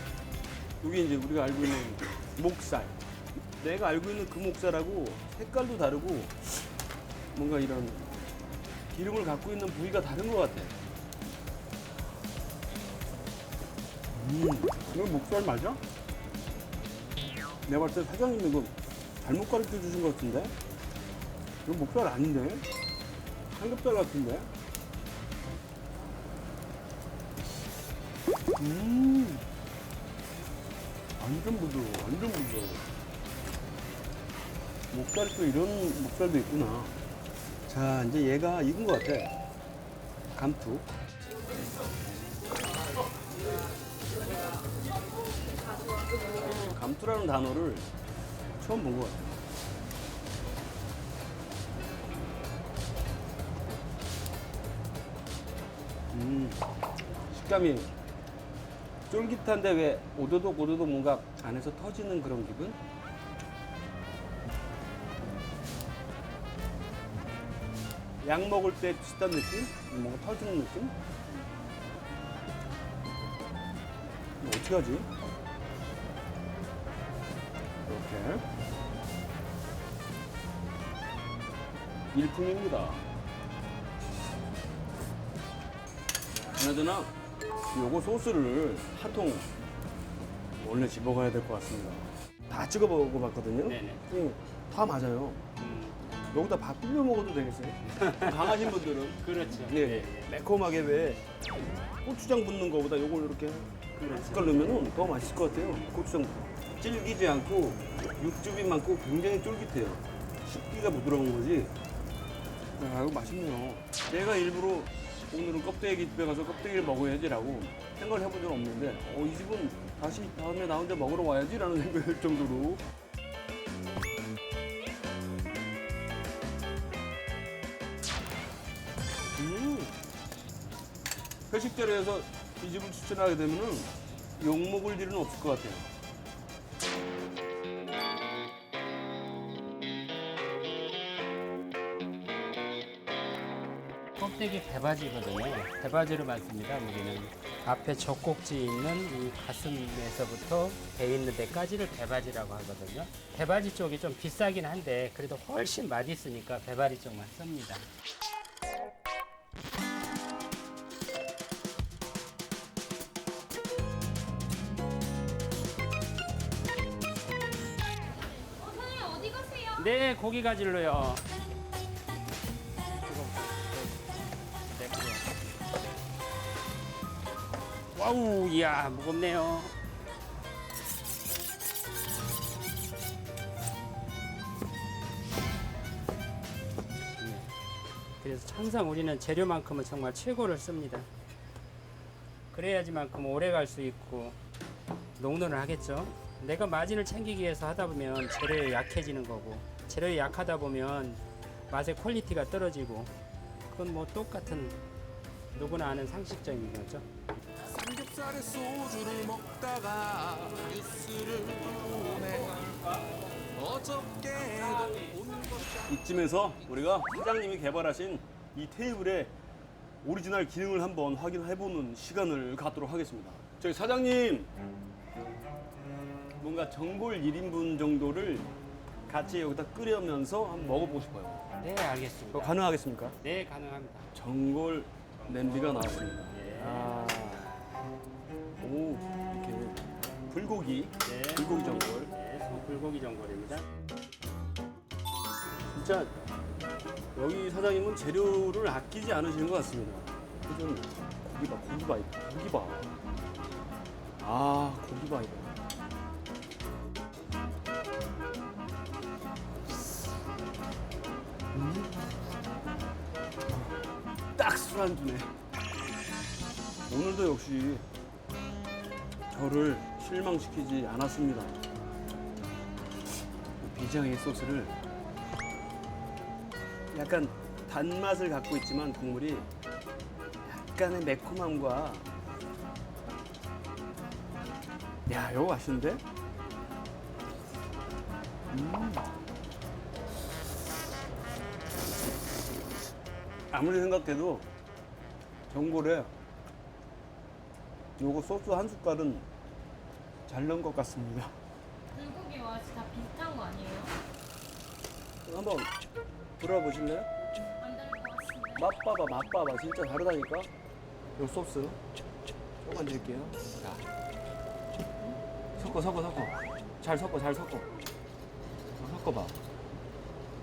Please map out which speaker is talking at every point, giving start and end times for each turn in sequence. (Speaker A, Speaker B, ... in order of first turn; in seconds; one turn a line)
Speaker A: 0.8-3.0
Speaker A: 3.6-6.4
Speaker A: 7.3-8.2
Speaker A: 8.9-10.8
Speaker A: 14.1-15.8
Speaker A: 17.6-20.5
Speaker A: 21.6-22.6
Speaker A: 23.5-24.5
Speaker A: 28.6-29.4
Speaker A: 31.2-32.9
Speaker A: 34.9-37.0
Speaker A: 37.7-39.3
Speaker A: 40.3-40.9
Speaker A: 46.2-47.9
Speaker A: 48.6-49.4
Speaker A: 56.1-56.6
Speaker A: 57.3-57.9
Speaker A: 59.1-62.8
Speaker A: 68.2-70.9
Speaker A: 74.4-75.1
Speaker A: 77.8-78.4
Speaker A: 82.1-83.0
Speaker A: 86.3-87.1
Speaker A: 87.7-89.5
Speaker A: 90.4-95.4
Speaker B: 93.6-94.0
Speaker B: 95.6-96.0
Speaker A: 96.3-101.2
Speaker B: 97.9-100.3
Speaker A: 102.0-111.7
Speaker B: 104.0-105.7
Speaker A: 112.8-122.8
Speaker A: 129.3-129.9
Speaker A: 131.5-135.9
Speaker B: 144.2-157.9
Speaker C: 168.2-169.8
Speaker B: 169.8-171.2
Speaker B: 173.1-173.9
Speaker B: 174.8-175.2
Speaker B: 177.9-179.7
Speaker B: 187.2-187.5
Speaker B: 188.2-191.1
Speaker B: 192.5-194.4
Speaker B: 195.2-203.1
Speaker B: 203.7-204.8
Speaker B: 205.5-207.1
Speaker D: 207.6-212.6
Speaker D: 213.6-215.8
Speaker A: 215.9-219.3
Speaker A: 220.0-224.5
Speaker A: 226.4-228.5
Speaker A: 229.1-231.4
Speaker B: 231.6-232.6
Speaker A: 232.3-233.2
Speaker B: 233.2-234.1
Speaker A: 234.1-237.5
Speaker B: 235.2-237.0
Speaker A: 238.6-242.1
Speaker B: 241.0-243.7
Speaker A: 245.7-246.1
Speaker A: 247.1-253.0
Speaker A: 254.2-255.5
Speaker A: 261.5-261.9
Speaker A: 263.5-263.8
Speaker A: 264.4-265.3
Speaker A: 266.9-267.8
Speaker A: 269.3-271.6
Speaker A: 273.6-274.7
Speaker A: 276.9-279.5
Speaker A: 280.4-282.1
Speaker A: 285.1-286.0
Speaker A: 288.5-289.1
Speaker A: 293.5-294.4
Speaker A: 295.5-296.1
Speaker A: 298.0-299.2
Speaker A: 300.3-301.4
Speaker C: 301.9-303.9
Speaker A: 305.2-305.7
Speaker A: 306.4-307.1
Speaker C: 307.6-308.7
Speaker A: 308.6-310.5
Speaker A: 311.1-311.8
Speaker A: 312.6-313.8
Speaker A: 315.6-317.7
Speaker A: 318.8-319.4